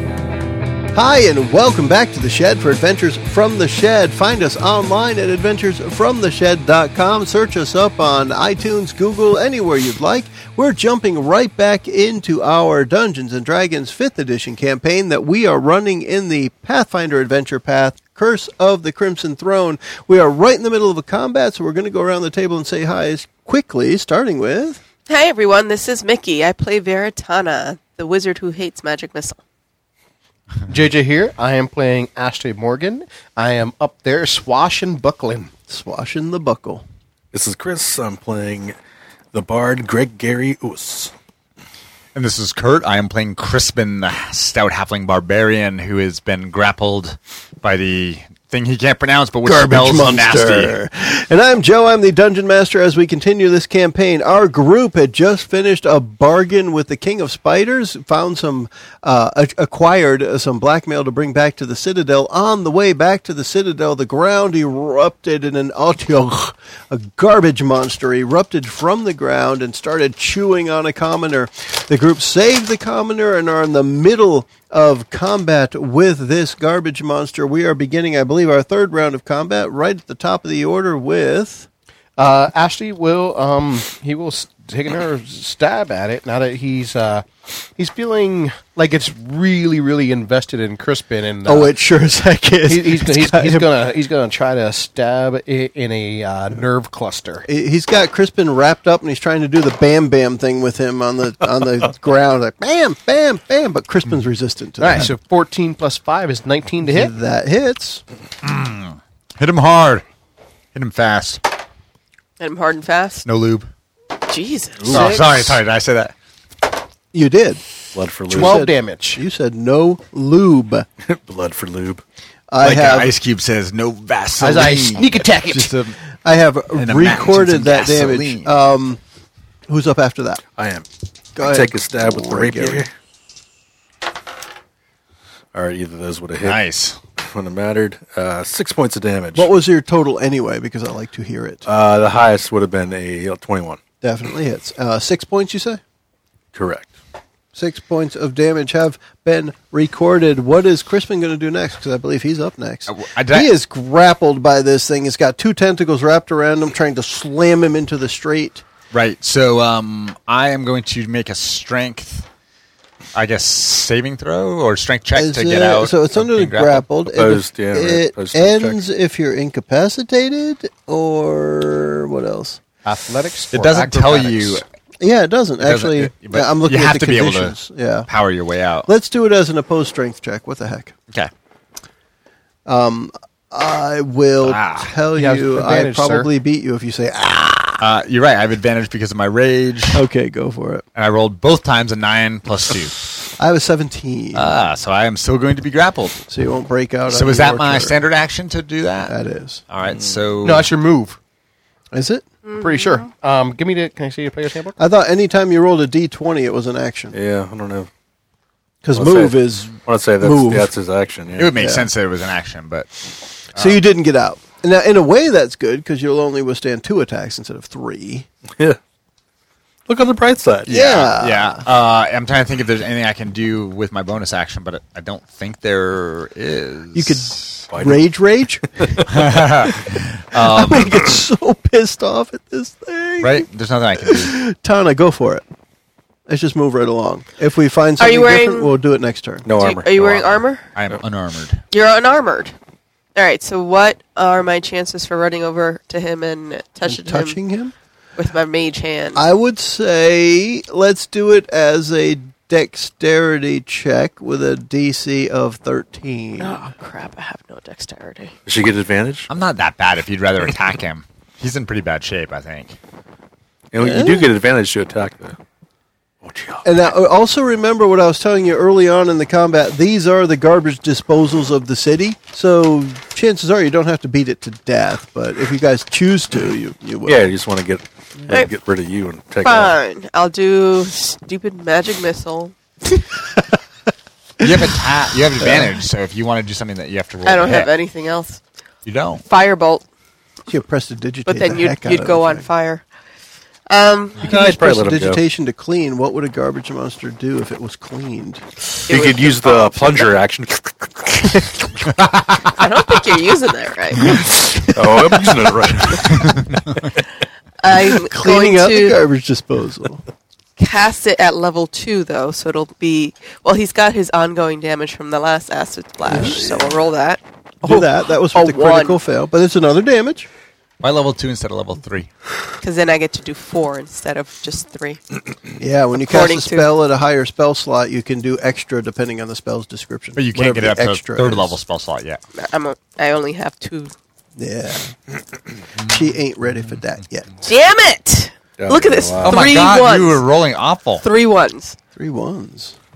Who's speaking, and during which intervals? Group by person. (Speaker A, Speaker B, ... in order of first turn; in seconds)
Speaker A: 0.9-24.8, 35.7-36.8, 49.4-81.7, 91.4-93.7, 97.5-105.1, 106.8-108.0, 114.9-115.2, 117.1-117.6, 118.3-120.9, 122.5-123.2, 126.2-129.0, 129.7-130.4, 131.4-132.9, 139.3-141.6, 144.0-145.8, 147.6-158.6, 165.1-172.6, 175.0-178.1, 178.9-180.9, 182.7-187.9, 189.9-190.8, 193.4-194.5, 196.3-198.0, 199.1-199.6, 201.9-202.2, 204.8-207.2, 208.8-210.7, 211.6-211.9, 213.6-218.3, 220.7-221.7, 226.9-229.3, 230.3-233.5, 234.0-235.4, 236.3-239.5, 246.8-247.7, 249.2-256.7, 263.8-264.3, 266.6-277.3, 285.4-285.7, 290.5-292.4, 294.2-298.4, 307.8-310.0, 316.1-316.7, 317.6-320.3, 325.6-331.6, 334.4-335.0, 335.8-337.3, 341.9-342.8
Speaker B: 25.1-29.4, 112.4-113.2, 114.3-114.9, 202.4-203.0, 238.0-238.7, 239.6-240.7, 241.7-242.5, 243.2-247.4, 248.2-249.2, 256.4-258.3, 279.4-282.5, 287.2-288.4, 289.2-289.8, 291.2-292.8, 293.7-294.2, 298.9-300.1, 302.6-304.2, 307.6-309.0, 310.6-319.0, 322.6-325.0, 326.0-326.7, 332.3-333.9, 337.4-340.2, 341.0-341.8
Speaker C: 30.7-35.5, 82.2-91.7, 92.7-97.5, 104.8-107.2, 114.9-115.3, 118.3-119.2, 124.4-125.8, 172.8-174.6, 185.1-186.3, 200.4-201.2, 202.5-204.8
Speaker D: 37.3-38.8, 39.3-41.1, 117.9-118.7, 121.0-122.0, 130.6-130.9, 131.4-132.9, 135.5-136.6, 137.2-139.5, 141.7-143.8, 146.5-146.9, 167.1-168.8, 199.9-200.2, 207.1-207.9, 208.9-211.6, 219.9-220.7, 227.7-228.0, 228.8-229.3, 239.4-240.4, 258.4-259.3, 263.7-265.4, 266.2-266.6, 277.1-279.8, 294.2-295.2, 298.9-301.5, 304.0-306.5, 338.6-339.5
Speaker E: 42.1-50.8, 108.4-110.0, 110.7-111.4, 113.2-113.7, 114.9-116.1, 122.6-126.0, 126.7-128.5, 136.4-137.0, 152.9-153.5, 158.9-162.2, 163.1-166.9, 173.5-174.7, 175.6-177.6, 178.1-178.9, 184.4-184.9, 187.8-190.1, 190.9-193.0, 194.3-196.2, 197.1-199.2, 199.7-200.7, 211.4-212.9, 213.6-213.8, 220.7-227.4, 229.1-231.1, 233.2-234.4, 240.8-241.6, 259.3-262.8, 284.4-287.7, 288.8-289.2, 302.0-302.5, 306.1-306.6, 320.8-322.1, 330.1-332.2, 339.2-341.0